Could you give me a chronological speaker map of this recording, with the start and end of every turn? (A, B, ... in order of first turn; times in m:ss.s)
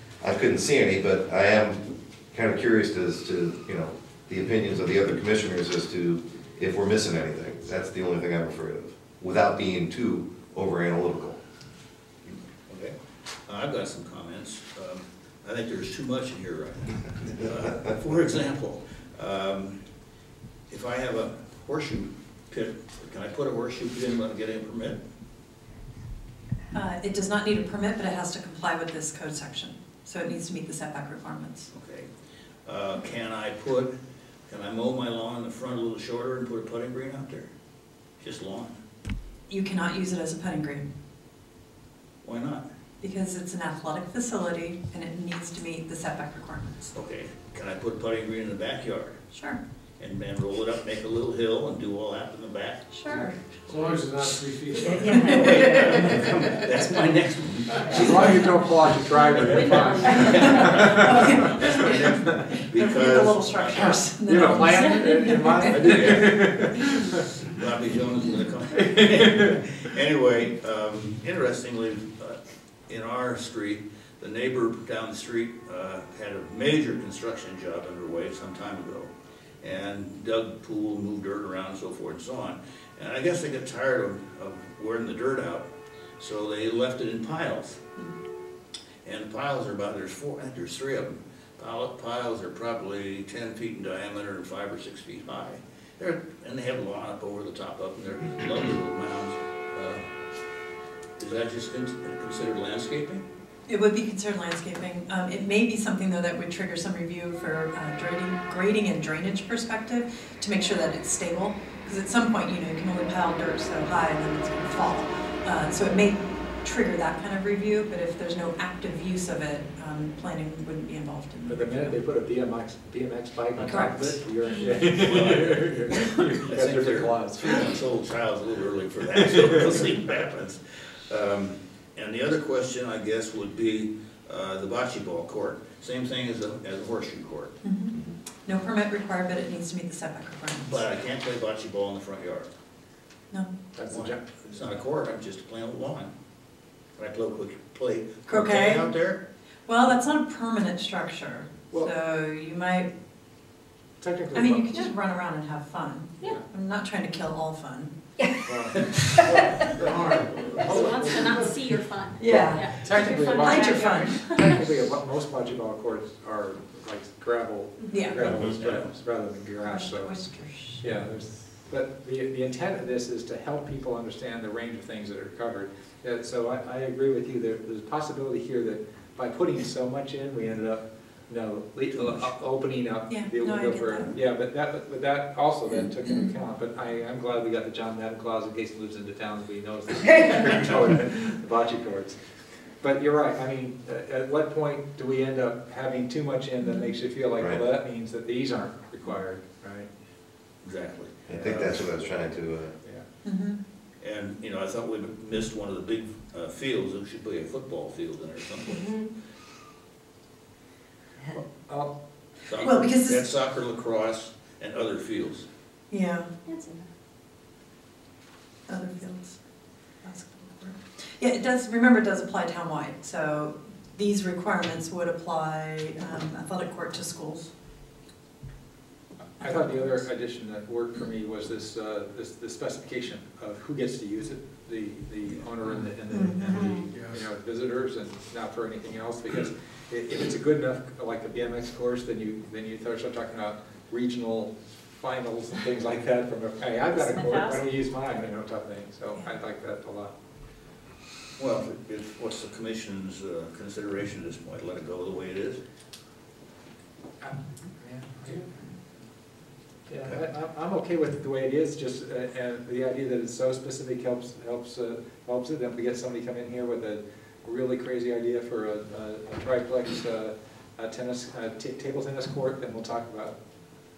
0:00.2-0:11.4 A
0:12.2-0:13.0 B
0:13.5-0:19.8 B
0:20.7-0:25.0 B
0:26.7-0:31.7 C
0:31.7-0:32.1 B
0:32.6-0:33.9 B
0:34.5-0:37.5 B
0:38.2-0:38.8 B
0:39.5-0:40.9 C
0:42.2-0:42.7 B
0:43.0-0:46.9 C
0:46.9-0:49.2 B
0:49.3-0:49.6 C
0:50.0-0:52.8 B
0:52.9-0:53.4 C
0:53.7-0:56.2 D
0:54.0-0:58.7 B
0:54.8-0:56.1 C
0:57.9-1:01.7 E
0:59.3-1:01.1 F
0:59.4-1:04.5 B
1:00.0-1:06.3 C
1:03.8-1:07.2 E
1:04.7-1:05.7 F
1:05.7-1:19.1 B
1:08.8-1:09.6 E
1:19.6-1:25.7 B
1:26.2-1:27.8 B
1:29.0-1:40.0 B
1:41.2-1:43.2 B
1:43.7-2:02.0 C
2:01.5-2:07.7 E
2:03.6-2:04.2 C
2:04.7-2:17.6 B
2:09.2-2:09.5 E
2:17.6-2:20.8 C
2:20.6-2:22.5 B
2:23.7-2:24.7 E
2:23.9-2:26.1 B
2:27.0-2:29.2 B
2:28.3-2:28.9 C
2:29.7-2:32.9 C
2:34.0-2:34.8 E
2:34.3-2:37.9 C
2:38.4-2:40.0 E
2:39.8-2:40.8 B
2:39.8-2:41.2 D
2:40.6-2:41.6 E
2:40.6-2:44.6 F
2:42.2-2:42.7 C
2:42.2-2:50.1 E
2:43.4-2:44.4 C
2:47.9-2:48.3 C
2:48.2-2:48.6 A
2:48.4-2:48.9 B
2:49.6-2:50.8 C
2:50.8-3:12.2 E
3:03.1-3:04.2 C
3:12.8-3:19.9 E
3:16.6-3:16.9 C
3:20.6-3:22.0 B
3:21.3-3:22.8 A
3:23.2-3:23.6 C
3:24.0-3:29.0 B
3:28.7-3:29.1 F
3:31.2-3:31.9 E
3:32.5-3:35.5 B
3:32.6-3:33.2 C
3:35.9-3:36.3 C
3:36.5-3:36.9 F
3:38.7-3:39.4 C
3:40.0-3:47.5 C
3:49.4-4:10.1 E
3:56.1-3:56.7 C
3:56.6-3:57.0 D
4:07.1-4:07.6 F
4:11.4-4:15.6 B
4:17.2-4:18.5 E
4:19.9-4:33.4 E